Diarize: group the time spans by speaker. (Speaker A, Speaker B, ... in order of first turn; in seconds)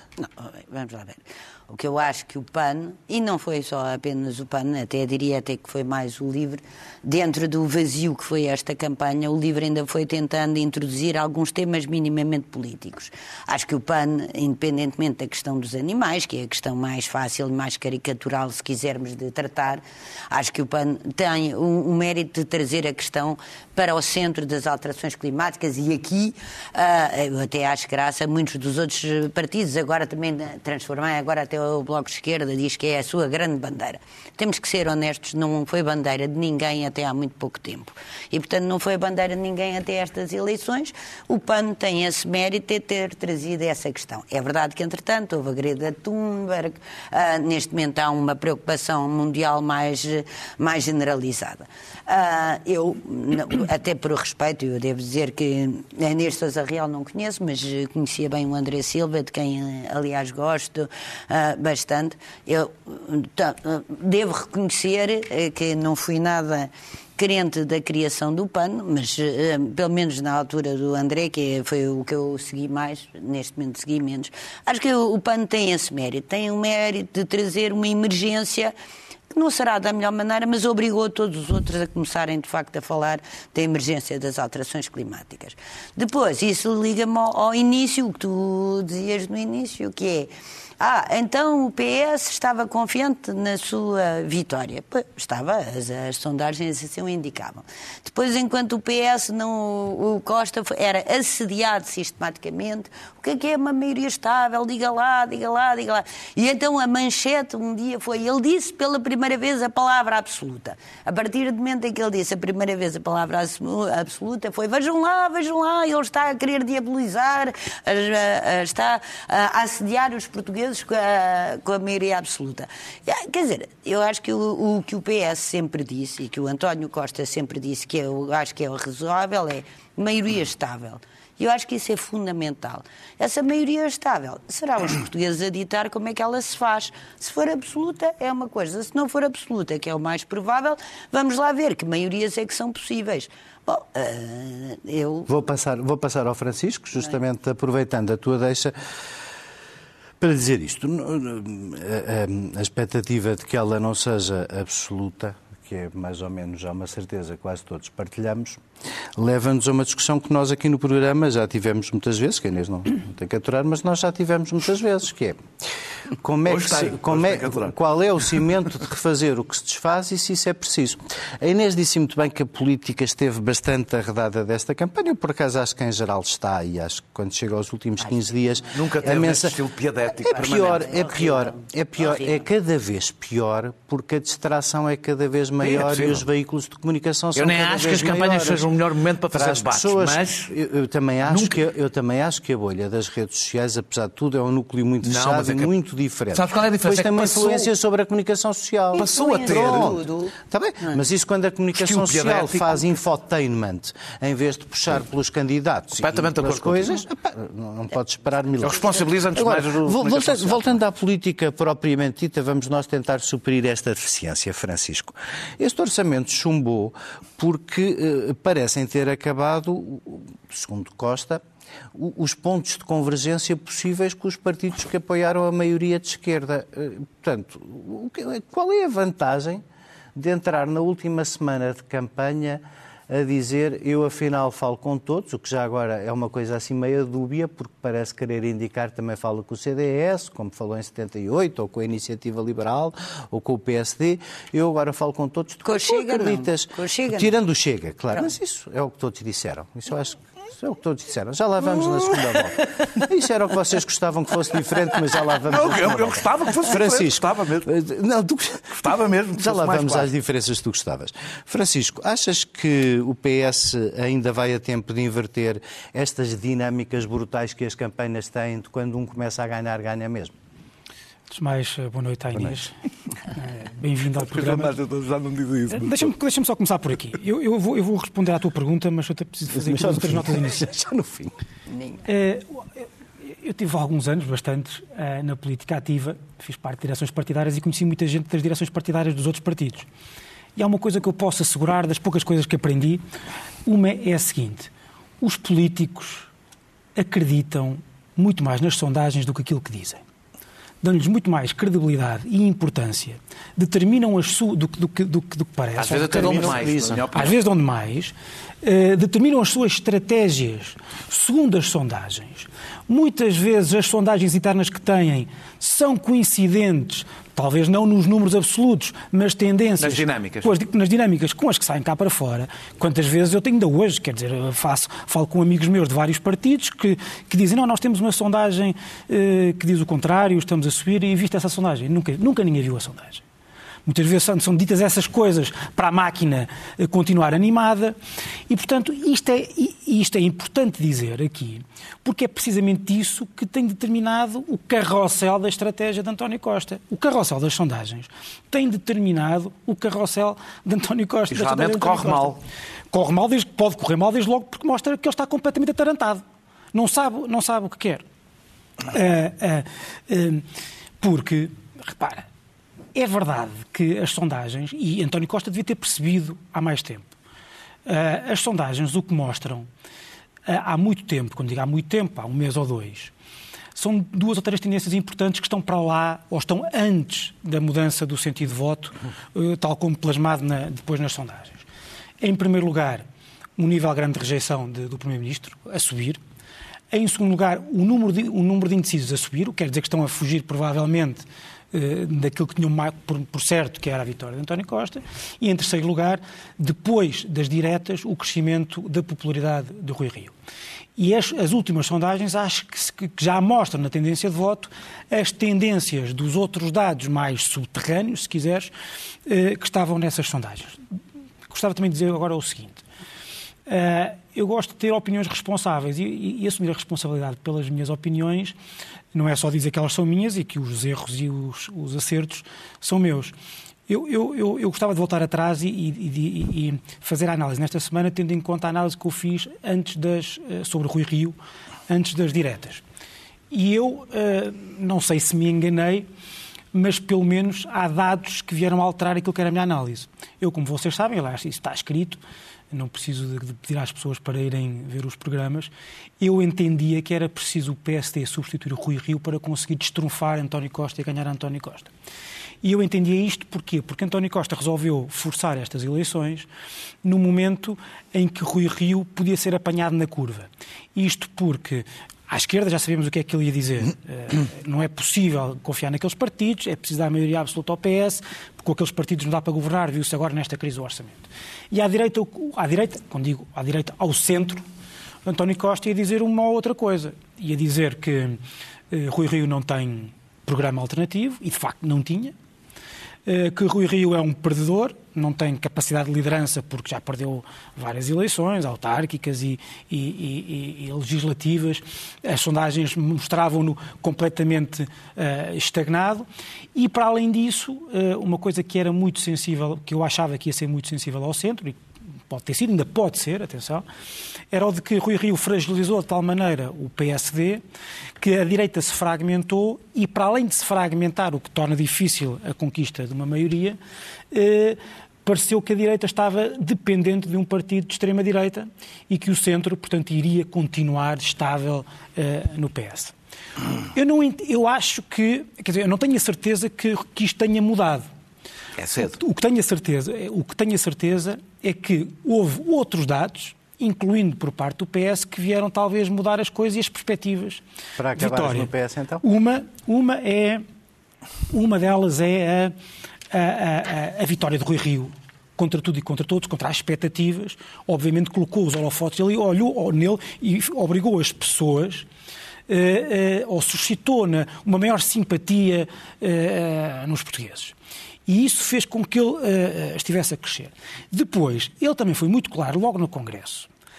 Speaker A: 0.2-78.7, 79.3-145.3, 180.3-182.4, 199.0-200.3, 245.6-247.3, 251.7-253.1, 255.1-255.4
Speaker B: 145.3-148.7, 150.2-158.6, 159.2-165.4, 166.1-179.6, 180.2-188.7, 189.3-221.4, 221.9-229.6, 230.2-270.3, 279.5-281.3, 306.1-307.1, 538.0-539.2
Speaker C: 166.4-167.7, 178.7-181.1, 185.6-186.2, 187.3-190.5, 191.2-191.5, 195.0-195.7, 196.3-197.7, 198.9-200.0, 201.7-202.9, 206.0-207.0, 208.6-210.8, 255.5-257.7, 258.7-260.1, 274.3-276.1, 305.8-307.4, 319.8-320.5, 351.3-352.4, 528.8-529.1
Speaker D: 271.3-272.7, 273.3-274.7, 275.7-280.6, 282.1-289.9, 290.6-293.0, 293.6-294.7, 295.2-296.3, 296.9-300.0, 300.8-333.2, 333.9-337.9, 338.5-352.4, 352.9-358.0, 358.9-360.4, 361.0-362.3, 362.9-367.1, 367.9-369.7, 370.4-373.1, 373.7-381.6, 382.2-383.1, 383.6-386.2, 386.9-400.3, 401.0-408.7, 409.2-410.8, 411.5-412.8, 413.7-418.6, 419.1-423.3, 423.9-431.4, 431.9-432.8, 433.5-436.1, 436.7-442.2, 442.7-451.9, 452.6-456.5, 457.0-474.6, 475.2-478.4, 478.9-482.3, 483.2-503.8, 504.5-507.6, 508.2-513.8, 514.3-523.1, 523.9-528.1, 529.0-537.6, 538.1-540.6, 541.5-542.7, 543.3-552.1, 552.7-557.7, 558.3-563.7